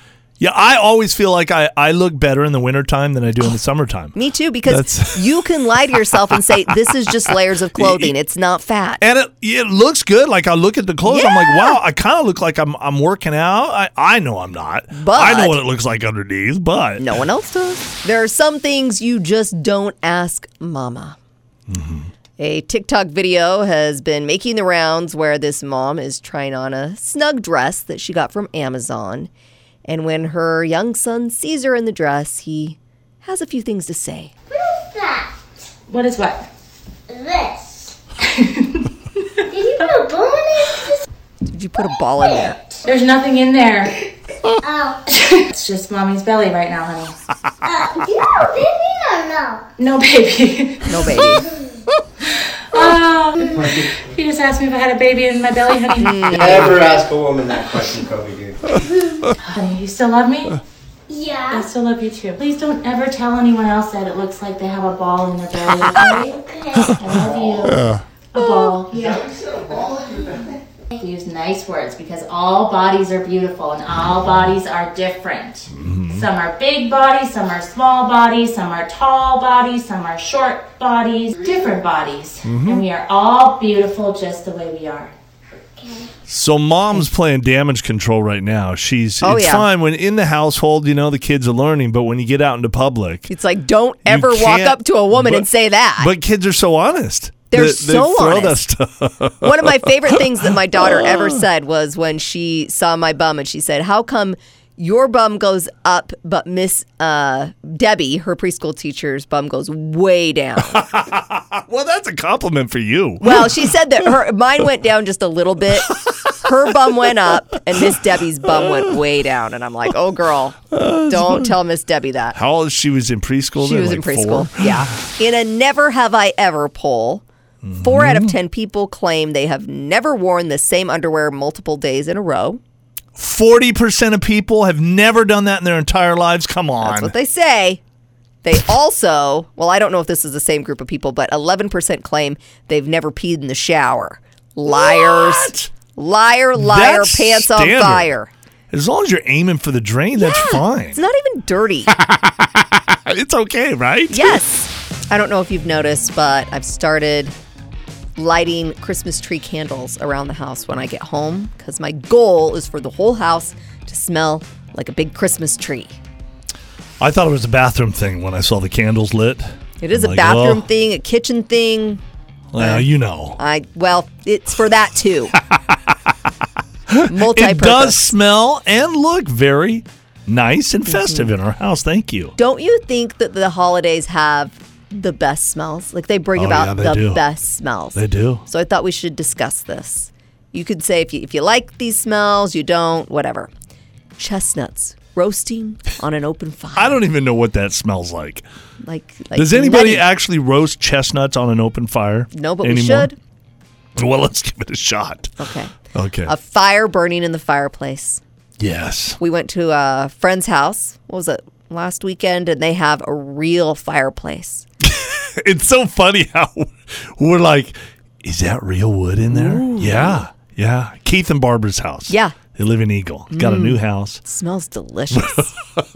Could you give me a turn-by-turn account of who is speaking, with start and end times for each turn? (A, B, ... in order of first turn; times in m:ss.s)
0:00.4-0:04.2 A
0:04.2-0:09.0 B
0:04.7-0:05.4 A
0:07.8-0:08.1 A
0:09.0-0:17.1 A
0:11.0-0:11.8 B
0:14.9-0:15.6 B
0:17.0-0:21.2 B
0:21.7-0:22.1 A
0:22.4-0:29.3 B
0:29.9-0:34.3 B
0:34.5-0:35.3 C
0:35.9-0:36.5 D
0:37.1-0:38.0 C
0:38.3-0:38.9 D
0:39.5-0:41.0 C
0:41.5-0:42.6 B
0:42.2-0:42.8 C
0:42.9-0:44.0 D
0:44.6-0:45.0 C
0:45.1-0:47.2 D
0:47.6-0:49.7 C
0:49.8-0:51.2 D
0:50.9-0:51.4 B
0:52.7-0:56.6 D
0:53.6-0:53.9 E
0:56.0-0:56.8 B
0:56.3-0:58.8 E
0:59.4-1:00.6 D
1:01.1-1:01.7 C
1:01.5-1:06.4 D
1:06.1-1:07.5 C
1:06.9-1:10.4 D
1:07.7-1:08.0 A
1:09.0-1:10.1 E
1:11.0-1:25.1 D
1:15.7-1:16.3 A
1:22.4-1:22.8 A
1:25.8-1:26.1 C
1:26.3-1:33.3 A
1:29.2-1:29.7 B
1:33.3-1:36.1 B
1:34.0-1:41.4 A
1:37.5-1:38.6 B
1:39.4-1:50.8 B
1:50.6-1:53.7 A
1:53.2-2:02.4 B
1:58.5-1:58.8 A
2:00.7-2:01.5 A
2:02.4-2:04.9 A
2:03.6-2:07.2 B
2:07.6-2:08.4 A
2:07.8-2:12.6 B
2:13.2-2:17.1 A
2:16.8-2:17.8 B
2:18.4-2:28.3 B
2:24.7-2:25.7 A
2:26.6-2:28.1 A
2:28.7-2:31.0 A
2:30.2-2:31.9 B
2:31.9-2:34.4 A
2:34.1-2:37.4 B
2:38.2-2:46.0 B
2:47.0-2:50.7 A
2:49.8-2:52.0 B
2:52.5-2:53.4 A
2:52.6-2:55.4 B
2:56.9-3:02.4 A
2:57.1-2:58.1 B
3:00.9-3:01.3 B
3:02.4-3:13.5 B
3:06.4-3:07.2 A
3:07.9-3:08.4 A
3:14.2-3:17.0 B
3:16.8-3:18.4 A
3:18.8-3:20.1 B
3:19.3-3:23.1 A
3:22.3-3:23.2 B
3:24.0-3:25.3 A
3:25.4-3:25.7 B
3:25.9-3:26.3 A
3:26.3-3:28.2 B
3:28.6-3:29.2 A
3:29.2-3:34.6 B
3:34.8-3:44.2 A
3:39.3-3:40.2 B
3:42.1-3:42.4 B
3:43.3-3:45.5 B
3:45.1-3:45.8 A